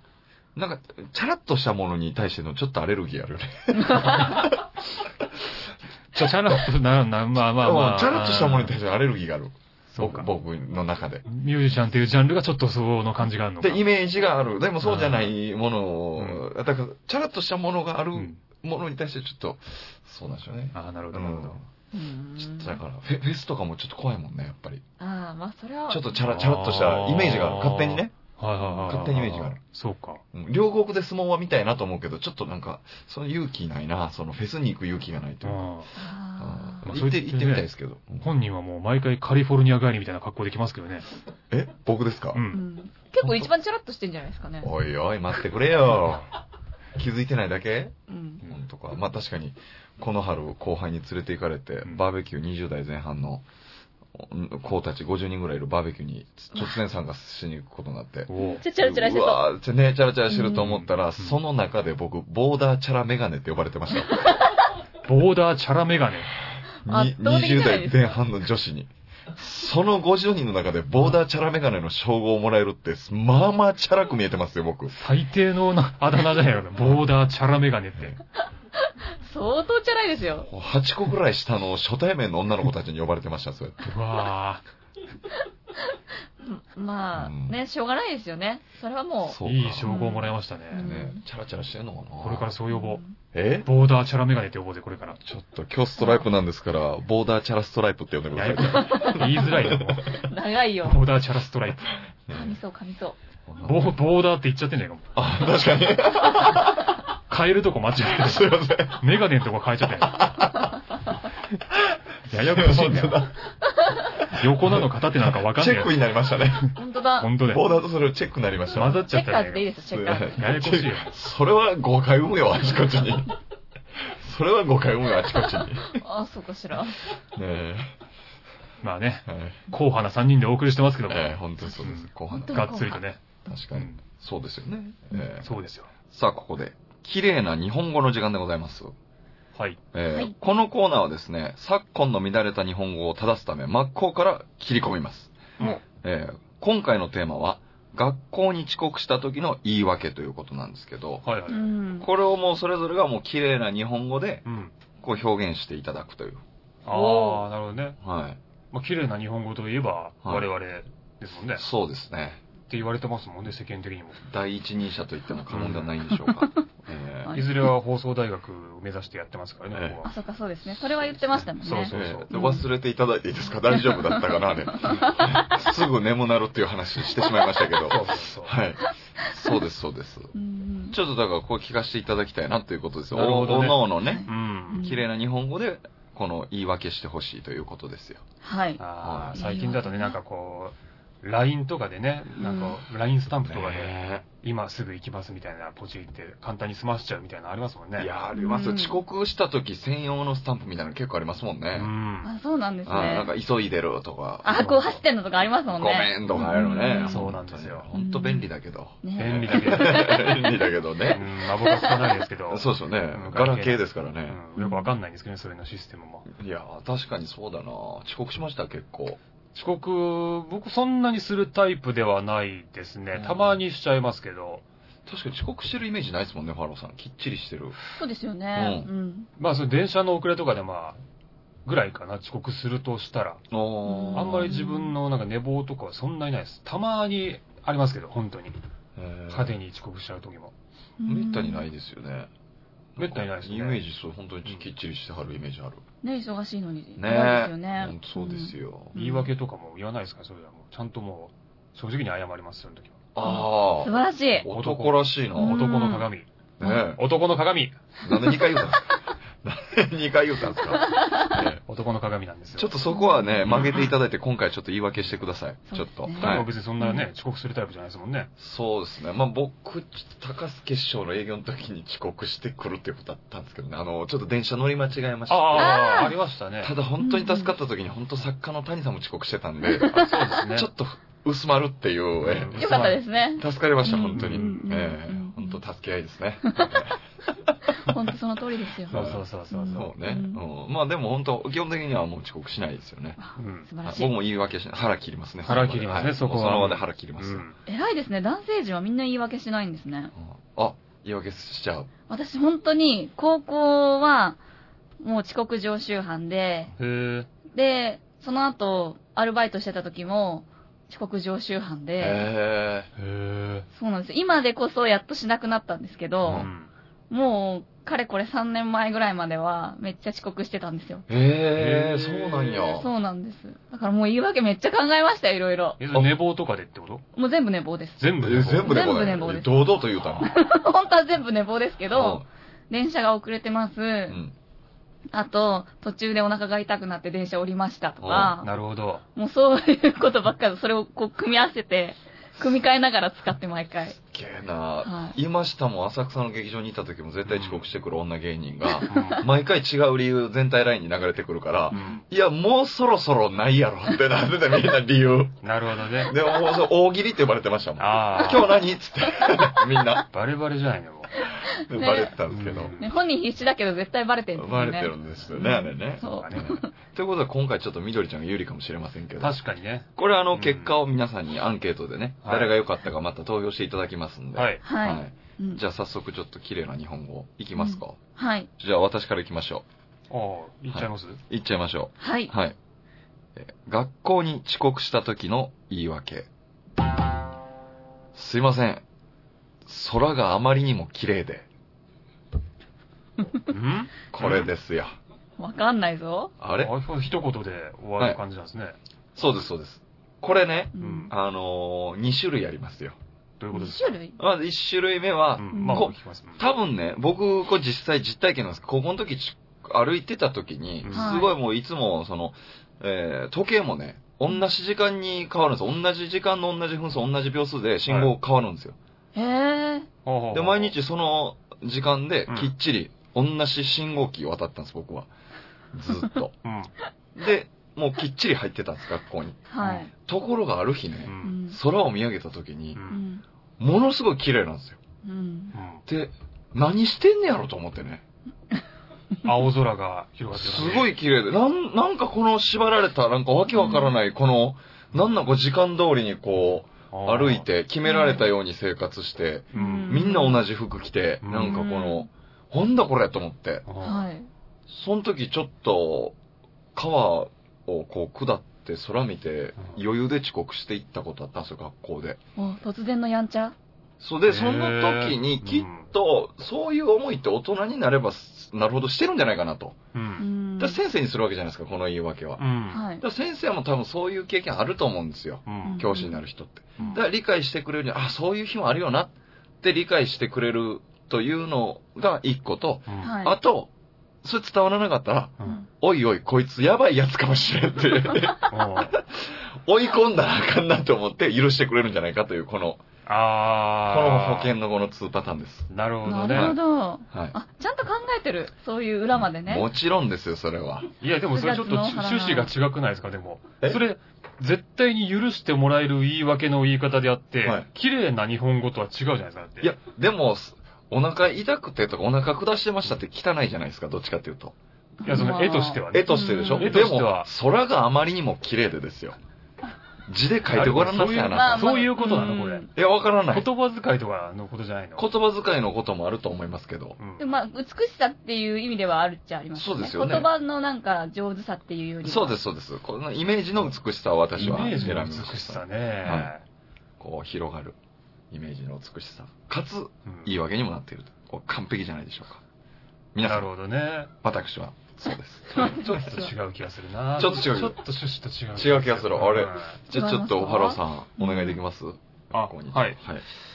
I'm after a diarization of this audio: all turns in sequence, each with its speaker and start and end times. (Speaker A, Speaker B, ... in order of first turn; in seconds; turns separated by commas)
Speaker A: 0.5-5.1, Speaker B: 3.8-4.4, Speaker C: 6.1-8.7, Speaker A: 7.5-11.2, Speaker C: 9.9-10.3, Speaker C: 11.2-13.8, Speaker A: 13.6-21.6, Speaker C: 14.8-15.3, Speaker C: 16.1-16.4, Speaker C: 18.1-18.4, Speaker C: 20.7-21.6, Speaker B: 21.9-22.8, Speaker A: 22.4-24.8, Speaker B: 25.0-26.2, Speaker A: 25.9-28.1, Speaker C: 26.2-30.2, Speaker A: 28.8-29.6, Speaker A: 30.3-35.7, Speaker C: 35.4-35.9, Speaker B: 36.0-36.9, Speaker A: 36.4-38.3, Speaker C: 36.8-41.1, Speaker A: 41.5-42.4, Speaker C: 42.3-42.6, Speaker B: 42.5-44.7, Speaker C: 43.2-43.5, Speaker A: 44.6-46.3, Speaker A: 47.0-53.5, Speaker B: 48.1-48.4, Speaker A: 54.1-64.2, Speaker C: 58.3-58.6, Speaker B: 58.4-59.4, Speaker B: 60.3-60.7, Speaker B: 64.1-64.6, Speaker C: 65.0-66.3, Speaker A: 66.8-74.9, Speaker B: 66.8-68.2, Speaker C: 74.9-78.2, Speaker B: 78.8-80.5, Speaker A: 80.5-84.0, Speaker C: 83.8-84.6, Speaker B: 86.4-91.2, Speaker A: 87.1-87.6, Speaker A: 89.2-90.0, Speaker C: 89.4-90.8, Speaker A: 90.7-92.5, Speaker C: 92.2-93.0, Speaker B: 92.7-93.2, Speaker A: 93.3-93.7, Speaker C: 93.6-95.2, Speaker A: 95.2-100.0, Speaker B: 96.0-96.2, Speaker C: 98.3-100.3, Speaker B: 98.6-99.5, Speaker B: 100.0-101.0, Speaker C: 100.8-102.0, Speaker A: 102.3-102.6, Speaker B: 102.3-103.2, Speaker A: 103.5-104.0, Speaker C: 103.6-105.1, Speaker A: 105.1-107.0, Speaker C: 107.3-110.3, Speaker A: 108.0-109.1, Speaker A: 110.0-110.6, Speaker C: 112.2-113.3, Speaker A: 112.3-113.3, Speaker C: 114.3-116.0, Speaker A: 114.3-116.7, Speaker C: 116.7-117.6, Speaker B: 116.8-117.3, Speaker A: 117.4-119.0, Speaker C: 118.7-119.7, Speaker B: 118.9-120.3, Speaker A: 119.9-123.3, Speaker C: 120.3-121.1, Speaker A: 123.9-126.0, Speaker B: 125.9-127.0, Speaker A: 127.3-127.9, Speaker C: 128.8-133.2, Speaker A: 129.2-129.7, Speaker A: 131.1-135.5, Speaker B: 132.3-133.0, Speaker C: 133.7-134.0, Speaker C: 135.4-135.9, Speaker A: 136.1-138.9, Speaker C: 139.5-139.8, Speaker A: 139.9-145.3, Speaker A: 146.0-151.3, Speaker C: 151.2-151.7, Speaker B: 151.5-152.1, Speaker A: 152.0-154.4, Speaker C: 154.4-154.7, Speaker A: 155.0-156.4, Speaker C: 156.8-158.0, Speaker B: 156.9-157.4, Speaker A: 158.0-158.4, Speaker C: 158.7-161.6, Speaker A: 160.2-160.5, Speaker A: 161.5-162.4, Speaker C: 162.7-164.2, Speaker A: 164.2-167.3, Speaker C: 165.5-165.9, Speaker B: 167.2-167.5, Speaker C: 167.3-170.1, Speaker A: 169.7-170.0, Speaker B: 170.0-172.7, Speaker C: 171.5-172.3, Speaker A: 171.9-180.3, Speaker B: 173.7-175.5, Speaker C: 177.8-178.6, Speaker B: 179.2-179.6, Speaker B: 180.3-181.0, Speaker A: 180.9-188.2, Speaker C: 183.1-184.8, Speaker B: 184.0-185.1, Speaker B: 188.4-188.8, Speaker C: 188.8-198.1, Speaker A: 189.0-189.6, Speaker B: 189.3-190.2, Speaker B: 192.4-192.8, Speaker A: 193.4-194.2, Speaker A: 197.9-201.9, Speaker B: 198.3-199.0, Speaker C: 201.7-202.3, Speaker B: 202.2-203.3, Speaker A: 202.8-204.6, Speaker B: 204.4-207.3, Speaker C: 204.5-205.0, Speaker A: 205.7-211.3, Speaker C: 207.0-207.8, Speaker B: 207.9-208.5, Speaker B: 209.0-210.6, Speaker C: 209.2-210.1, Speaker C: 211.1-216.3, Speaker B: 211.6-212.2, Speaker A: 212.5-214.4, Speaker B: 214.6-214.9, Speaker A: 216.3-219.2, Speaker C: 219.5-224.6, Speaker A: 223.1-223.6, Speaker A: 225.1-227.8, Speaker B: 227.9-229.3, Speaker A: 228.5-228.9, Speaker C: 229.4-231.0, Speaker C: 231.7-233.4, Speaker A: 233.5-234.5, Speaker B: 233.8-234.9, Speaker C: 234.1-238.6, Speaker A: 238.9-239.6, Speaker C: 239.3-240.5, Speaker B: 241.0-241.7, Speaker A: 241.1-242.3, Speaker A: 242.9-245.8, Speaker C: 243.0-243.8, Speaker B: 246.0-249.3, Speaker A: 247.0-248.9, Speaker C: 248.9-253.0, Speaker A: 253.1-255.8, Speaker B: 253.2-254.5, Speaker C: 254.4-256.3, Speaker B: 255.3-256.1, Speaker A: 256.6-257.0, Speaker C: 256.9-257.8, Speaker A: 258.0-261.6, Speaker B: 258.1-258.6, Speaker C: 261.7-262.8, Speaker A: 262.5-266.5, Speaker B: 262.9-263.9, Speaker C: 263.5-263.8, Speaker B: 265.7-267.0, Speaker C: 266.2-268.3, Speaker A: 268.4-287.5, Speaker C: 275.3-276.7, Speaker B: 275.5-276.1, Speaker B: 277.0-277.5, Speaker B: 279.6-280.4, Speaker C: 279.9-280.7, Speaker C: 282.2-283.0, Speaker B: 282.6-285.6, Speaker C: 284.1-284.6, Speaker B: 286.4-286.8, Speaker B: 287.7-290.4, Speaker C: 288.9-289.9, Speaker A: 288.9-293.2, Speaker B: 293.2-294.1, Speaker C: 293.4-293.7, Speaker A: 293.8-297.4, Speaker C: 295.4-297.6, Speaker B: 297.7-300.1, Speaker A: 300.1-301.9, Speaker B: 302.1-304.4, Speaker B: 305.0-306.7, Speaker C: 306.8-307.3, Speaker B: 307.5-312.2, Speaker A: 312.0-312.9, Speaker C: 312.9-313.6, Speaker B: 313.7-316.5, Speaker C: 316.3-316.7, Speaker B: 317.1-321.1, Speaker A: 321.1-322.9, Speaker C: 321.5-322.4, Speaker B: 322.4-325.8, Speaker C: 325.8-327.0, Speaker A: 325.9-326.2, Speaker B: 327.1-329.6, Speaker C: 328.0-328.7, Speaker A: 328.2-330.3, Speaker B: 330.2-334.2, Speaker A: 331.9-332.2, Speaker A: 334.1-334.3, Speaker B: 335.1-338.5, Speaker A: 338.0-338.3, Speaker C: 338.4-339.0, Speaker B: 339.1-344.0, Speaker A: 344.0-360.0, Speaker B: 344.8-345.1, Speaker C: 347.3-347.6, Speaker C: 348.9-349.2, Speaker B: 348.9-349.2, Speaker C: 351.7-352.0, Speaker C: 355.4-356.1, Speaker C: 357.8-358.6, Speaker C: 360.1-361.1, Speaker B: 361.2-362.1, Speaker A: 361.4-362.8, Speaker C: 362.3-362.9, Speaker B: 362.8-366.7, Speaker A: 364.3-369.4, Speaker C: 366.0-366.5, Speaker C: 369.2-370.7, Speaker A: 369.9-378.0, Speaker C: 372.2-372.5, Speaker C: 374.4-374.6, Speaker B: 374.6-375.6, Speaker B: 377.6-378.5, Speaker A: 378.6-379.6, Speaker C: 380.1-381.2, Speaker A: 380.7-382.6, Speaker B: 382.0-382.3, Speaker A: 383.4-386.3, Speaker A: 388.1-388.8, Speaker A: 389.6-391.5, Speaker C: 393.5-394.4, Speaker A: 394.1-394.9, Speaker B: 395.4-396.3, Speaker A: 396.4-396.7, Speaker C: 396.6-398.8, Speaker A: 399.1-403.0, Speaker B: 400.7-401.1, Speaker C: 400.8-401.1, Speaker C: 403.4-403.9, Speaker B: 403.5-404.2, Speaker A: 404.2-418.8, Speaker C: 405.4-406.4, Speaker B: 405.5-405.9, Speaker C: 410.8-411.2, Speaker B: 410.9-411.4, Speaker C: 417.9-418.1, Speaker B: 419.1-419.9, Speaker C: 420.0-420.7, Speaker A: 420.3-425.1, Speaker A: 425.7-426.3, Speaker C: 426.4-426.7, Speaker A: 427.1-432.8, Speaker B: 429.5-429.9, Speaker C: 429.6-429.9, Speaker C: 431.0-431.3, Speaker B: 431.2-431.6, Speaker C: 432.7-433.0, Speaker B: 432.9-433.2, Speaker A: 433.6-434.8, Speaker B: 435.0-435.5, Speaker C: 435.5-435.8, Speaker A: 435.9-438.0, Speaker C: 439.2-440.9, Speaker A: 440.3-453.6, Speaker B: 443.5-443.9, Speaker C: 446.9-447.4, Speaker B: 447.8-448.3, Speaker C: 449.5-450.0, Speaker B: 449.5-450.4, Speaker C: 451.2-451.7, Speaker B: 451.4-452.1, Speaker C: 453.7-454.1, Speaker B: 453.8-454.3, Speaker A: 454.7-456.1, Speaker A: 456.7-462.2, Speaker B: 462.4-463.5, Speaker A: 464.0-469.8, Speaker C: 464.2-465.9, Speaker C: 469.9-470.2, Speaker B: 470.2-470.8, Speaker A: 470.6-483.7, Speaker C: 472.4-472.8, Speaker B: 472.7-473.0, Speaker C: 475.4-475.8, Speaker B: 475.6-476.2, Speaker C: 482.9-483.1, Speaker B: 483.0-483.3, Speaker A: 484.2-492.8, Speaker C: 488.5-489.0, Speaker C: 493.1-494.5, Speaker A: 493.8-495.7, Speaker C: 495.7-496.6, Speaker B: 496.0-499.7, Speaker A: 496.3-496.6, Speaker A: 499.1-500.9, Speaker C: 501.0-509.7, Speaker B: 501.3-502.5, Speaker A: 507.4-507.7, Speaker A: 509.6-514.5, Speaker B: 515.0-516.8, Speaker C: 515.0-517.3, Speaker A: 515.9-519.1, Speaker A: 520.1-521.8, Speaker C: 520.5-522.7, Speaker B: 521.2-522.7, Speaker A: 522.7-523.5, Speaker C: 523.3-525.1, Speaker A: 525.0-527.0, Speaker C: 527.0-527.2, Speaker B: 527.2-532.4, Speaker A: 529.5-530.3, Speaker A: 532.0-536.3, Speaker C: 534.4-536.4, Speaker B: 534.4-534.9, Speaker A: 537.0-537.8, Speaker A: 538.3-542.4, Speaker C: 540.0-540.3, Speaker A: 543.1-543.5, Speaker C: 543.2-544.1, Speaker A: 544.2-546.3, Speaker C: 545.6-549.8, Speaker A: 547.1-547.8, Speaker A: 548.5-553.2, Speaker B: 549.9-551.6, Speaker C: 552.3-553.0